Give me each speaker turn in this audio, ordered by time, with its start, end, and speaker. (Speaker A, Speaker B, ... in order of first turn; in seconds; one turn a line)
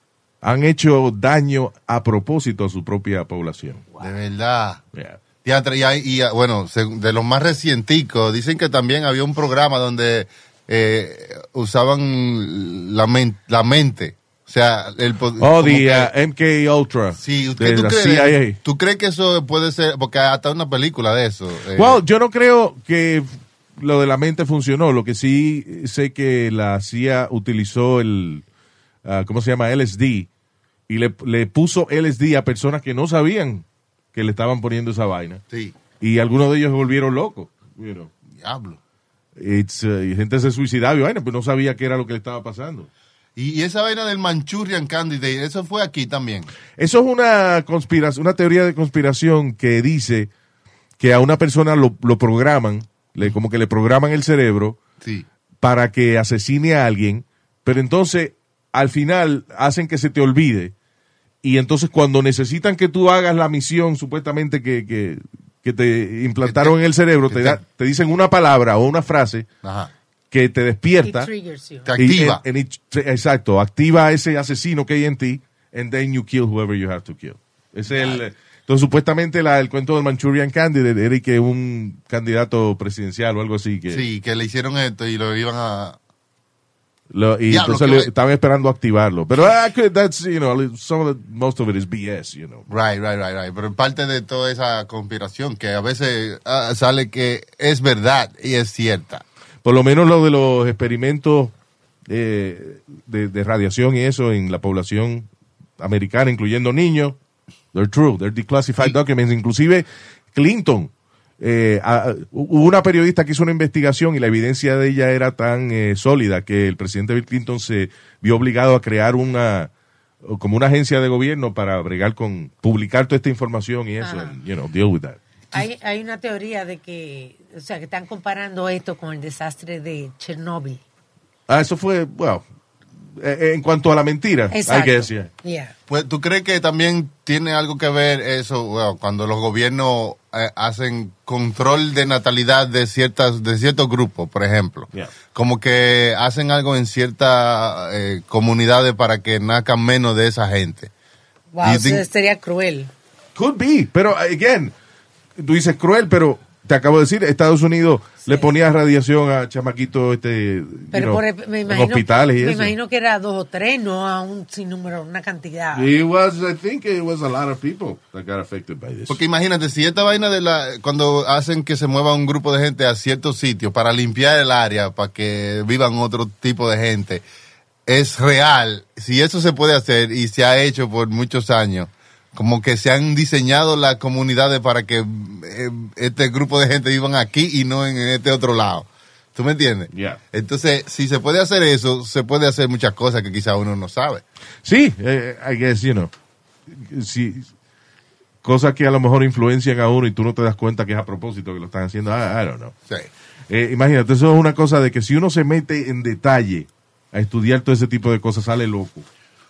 Speaker A: 0.4-3.9
Speaker B: 4.0-4.8
Speaker A: 4.9-5.2
Speaker B: 5.4-16.1
Speaker A: 15.4-18.6
Speaker B: 17.1-22.0
Speaker A: 21.7-28.4
Speaker A: 29.0-30.3
Speaker A: 30.9-35.4
Speaker B: 35.5-35.8
Speaker A: 36.0-38.1
Speaker B: 38.4-38.8
Speaker A: 39.4-42.9
Speaker B: 43.4-46.5
Speaker A: 46.8-50.3
Speaker A: 51.0-54.8
Speaker B: 55.0-55.2
Speaker A: 55.6-60.7
Speaker A: 61.4-69.5
Speaker B: 66.4-67.6
Speaker B: 69.6-69.9
Speaker A: 70.3-71.3
Speaker C: 71.0-71.9
Speaker B: 71.8-72.4
Speaker A: 72.0-84.0
Speaker B: 83.9-86.0
Speaker A: 87.1-92.6
Speaker B: 87.5-88.1
Speaker B: 92.7-99.2
Speaker A: 99.6-101.5
Speaker A: 102.1-105.3
Speaker A: 105.8-107.2
Speaker A: 107.7-119.7
Speaker A: 120.2-125.7
Speaker C: 124.0-124.3
Speaker C: 125.5-130.8
Speaker A: 131.5-132.4
Speaker A: 133.1-135.3
Speaker C: 134.5-135.7
Speaker B: 135.9-150.9
Speaker C: 151.5-152.9
Speaker B: 151.6-152.1
Speaker A: 153.3-154.7
Speaker A: 155.4-162.7
Speaker C: 158.2-158.5
Speaker C: 160.9-165.9
Speaker A: 165.7-169.2
Speaker B: 169.1-177.2
Speaker B: 177.9-194.2
Speaker A: 189.9-190.2
Speaker A: 194.6-196.1
Speaker A: 196.7-197.5
Speaker A: 198.4-202.7
Speaker A: 203.5-209.1